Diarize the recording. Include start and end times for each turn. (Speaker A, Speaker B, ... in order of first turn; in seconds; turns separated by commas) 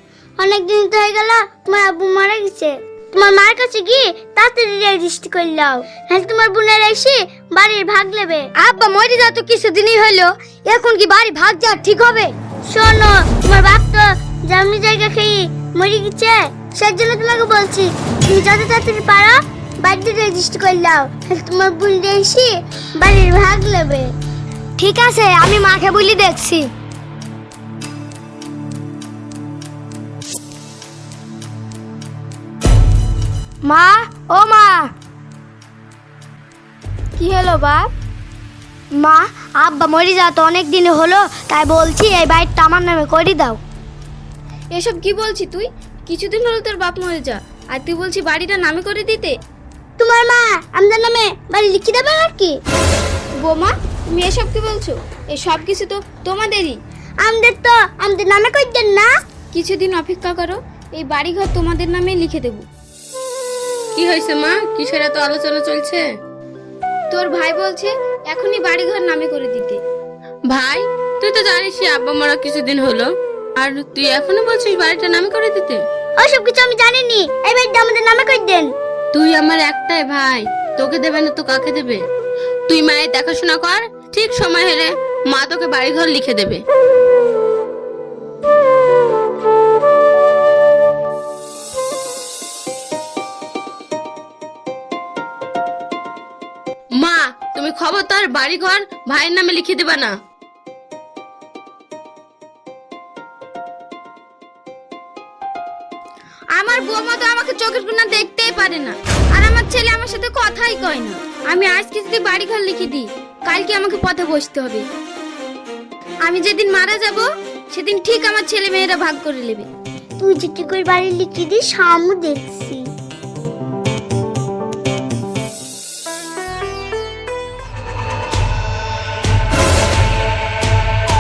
Speaker A: 0.4-8.5, Speaker B: 8.6-12.3, Speaker A: 12.7-24.1, Speaker B: 24.8-26.7, Speaker B: 33.7-34.9, Speaker C: 37.2-37.9, Speaker B: 39.0-43.6, Speaker C: 44.7-49.4, Speaker A: 50.0-52.6, Speaker C: 53.4-56.8, Speaker A: 57.2-59.1, Speaker C: 59.5-62.7, Speaker D: 64.0-66.1, Speaker C: 67.1-69.8, Speaker D: 70.5-75.8, Speaker A: 76.2-78.7, Speaker D: 79.1-82.1, Speaker D: 82.7-86.6, Speaker D: 97.0-100.2, Speaker C: 106.5-114.9, Speaker C: 116.2-119.7, Speaker A: 120.2-122.8